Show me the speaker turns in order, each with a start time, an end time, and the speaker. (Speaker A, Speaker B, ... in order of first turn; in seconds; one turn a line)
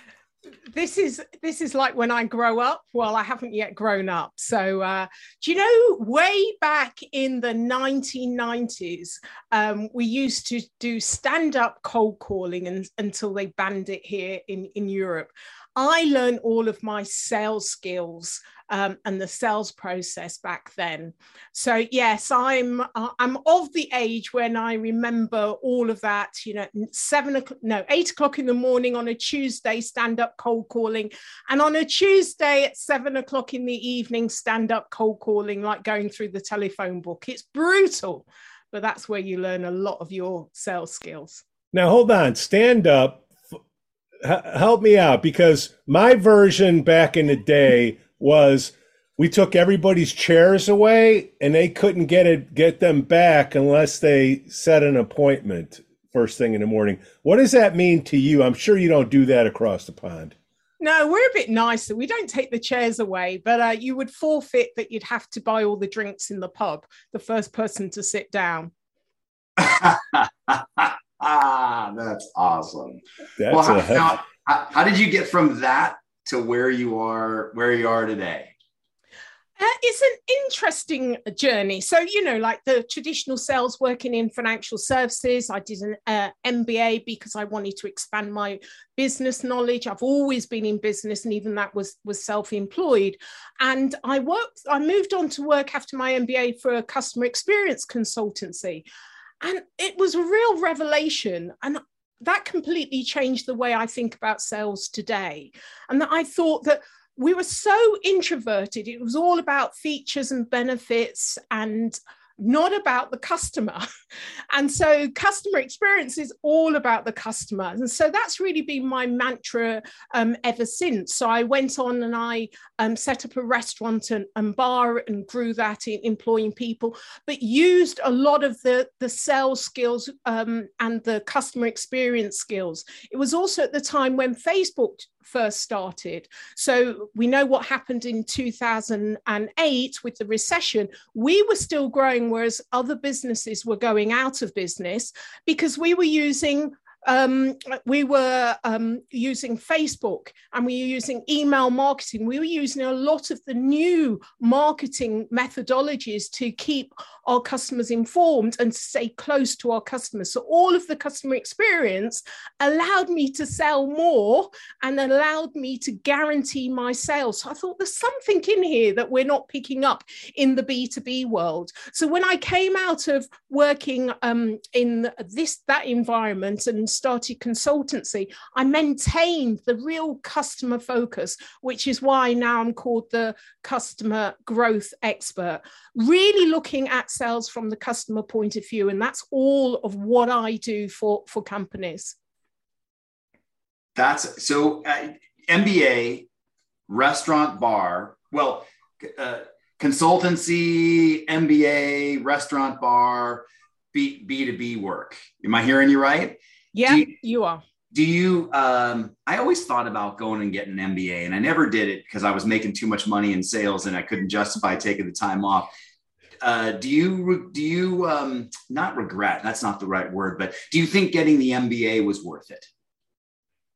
Speaker A: 0.7-41.4
Speaker B: 41.7-43.3
Speaker B: 44.2-60.3
Speaker A: 60.8-68.7
Speaker C: 69.6-78.5
Speaker B: 73.4-74.1
Speaker A: 79.6-98.8
Speaker A: 99.4-113.8
Speaker A: 114.5-192.2
Speaker C: 193.9-196.3
Speaker C: 196.9-207.1
Speaker A: 206.7-207.6
Speaker C: 207.9-215.7
Speaker C: 216.4-222.7